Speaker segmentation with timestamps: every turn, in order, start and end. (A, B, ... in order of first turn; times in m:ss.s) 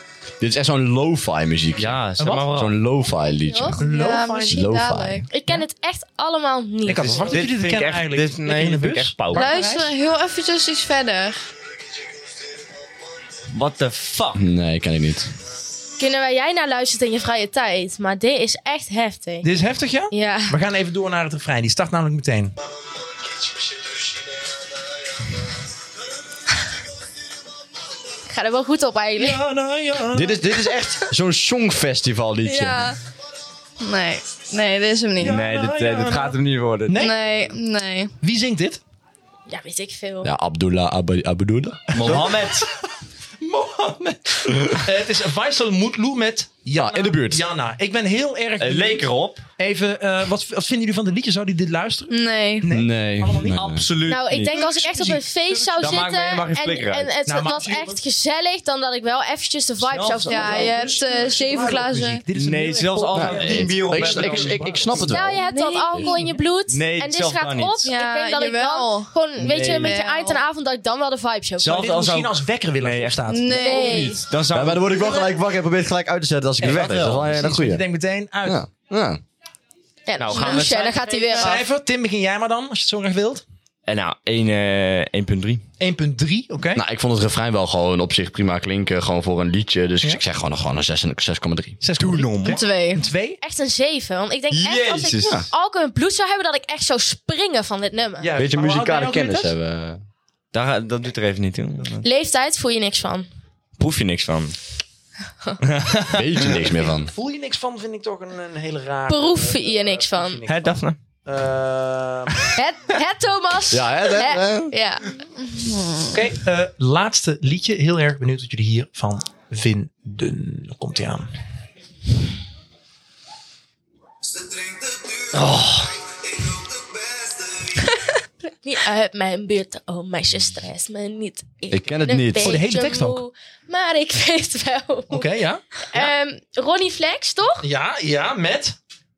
0:00.4-0:02.0 A
0:01.8-0:02.7 B
0:02.2-0:02.5 C
0:02.5-0:03.8 A
0:03.4-0:03.8 D
0:03.8-0:05.3 E
0:03.8-0:04.7 C
0:04.5-0:05.2 A
0:05.3-0:07.4 D
0:06.8-0:09.9 C
0:07.0-0:09.5 B
0:09.3-0:11.5 E
0:13.5-0:14.4 B
0:14.3-0:15.3 A
0:16.0-0:19.5 D
0:19.4-0:22.5 C
0:20.1-0:20.6 D
0:28.3-0:29.4 D
0:29.2-0:30.6 C
0:30.1-0:32.9 A
0:32.4-0:33.0 E
0:33.8-0:35.4 E
0:35.2-0:37.2 C
0:35.2-0:37.0 B
0:36.9-0:38.1 E
0:38.2-0:38.8 C
0:39.5-0:40.3 D
0:40.2-0:42.3 A
0:41.9-0:42.6 B
0:41.9-0:42.7 C
0:43.4-0:49.0 C
0:46.7-0:47.4 A
0:48.6-0:49.4 B
0:49.6-0:53.7 C
0:52.1-0:52.7 E
0:52.7-0:53.9 A
0:53.5-0:54.6 B
0:54.0-1:00.8 D
0:54.5-0:55.8 C
0:55.8-0:57.1 B
0:57.2-0:58.0 C
0:59.8-1:00.7 B
1:00.3-1:02.2 E
1:00.3-1:05.2 C
1:02.3-1:05.0 B
1:03.1-1:06.1 A
1:05.1-1:11.8 D
1:05.4-1:06.2 E
1:06.7-1:07.8 B
1:07.8-1:09.1 E
1:09.4-1:10.0 B
1:09.6-1:10.4 E
1:11.6-1:13.2 B
1:11.6-1:14.2 C
1:13.3-1:14.2 E
1:13.5-1:14.2 D
1:14.0-1:14.9 B
1:14.5-1:17.8 A
1:16.6-1:17.3 B
1:16.6-1:18.6 C
1:18.4-1:19.2 A
1:20.1-1:21.6 D
1:20.2-1:21.6 B
1:20.3-1:20.6 E
1:21.4-1:23.4 C
1:23.8-1:25.6 B
1:25.8-1:26.8 C
1:26.7-1:31.8 A
1:31.8-1:33.4 C
1:32.0-1:32.6 B
1:32.4-1:38.3 D
1:34.5-1:35.4 B
1:38.2-1:39.5 C
1:38.4-1:40.0 A
1:40.5-1:42.0 B
1:42.0-1:43.3 D
1:43.8-1:44.5 B
1:45.6-1:46.2 B
1:46.1-1:47.1 A
1:46.6-1:52.5 C
1:49.1-1:50.4 D
1:50.5-1:51.0 B
1:52.5-1:55.1 D
1:53.7-1:54.7 A
1:55.4-1:56.1 E
1:56.1-2:01.3 C
2:05.3-2:05.9 B
2:08.6-2:15.3 D
2:11.7-2:12.6 A
2:12.4-2:13.2 C
2:15.1-2:16.1 C
2:15.8-2:17.6 D
2:17.6-2:18.8 C